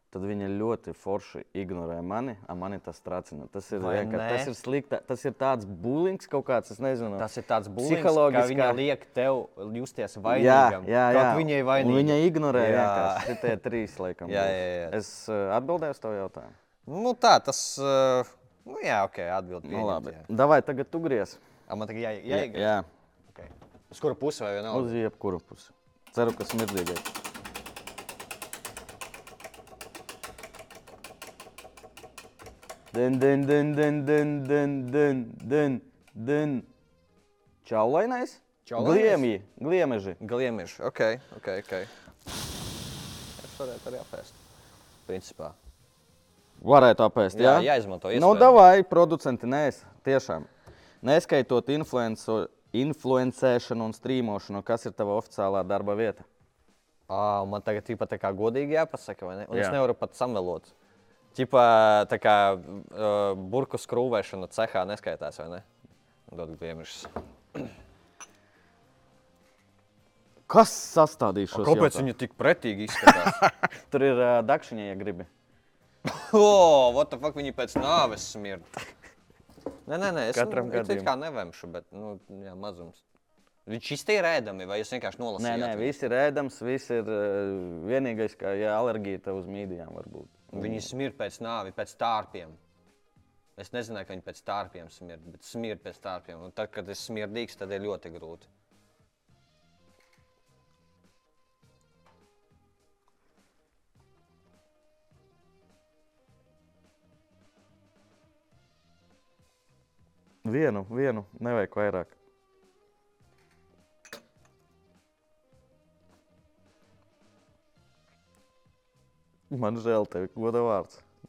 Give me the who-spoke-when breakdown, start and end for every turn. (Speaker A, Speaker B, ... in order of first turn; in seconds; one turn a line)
Speaker A: 0.1-7.3
Speaker B: 3.7-4.5
Speaker B: 7.2-13.5
Speaker A: 7.8-8.8
Speaker A: 10.3-16.6
Speaker B: 14.3-15.0
Speaker B: 16.9-20.3
Speaker A: 19.6-21.4
Speaker B: 21.7-22.7
Speaker A: 22.3-22.9
Speaker B: 23.3-25.0
Speaker A: 24.7-27.1
Speaker A: 32.9-36.7
Speaker A: 37.6-40.2
Speaker B: 38.6-39.2
Speaker B: 40.2-41.9
Speaker B: 43.4-44.4
Speaker B: 45.1-45.6
Speaker A: 46.6-50.5
Speaker B: 47.3-48.6
Speaker A: 51.0-56.3
Speaker B: 57.1-60.7
Speaker A: 59.5-59.8
Speaker B: 61.4-65.7
Speaker B: 66.3-67.7
Speaker A: 70.5-72.1
Speaker B: 71.5-73.4
Speaker A: 73.0-75.3
Speaker B: 76.1-78.7
Speaker B: 79.9-83.0
Speaker A: 80.3-81.1
Speaker B: 83.7-86.0
Speaker A: 85.4-90.9
Speaker B: 90.5-92.6
Speaker B: 93.6-98.5
Speaker A: 110.4-112.2
Speaker A: 119.5-121.0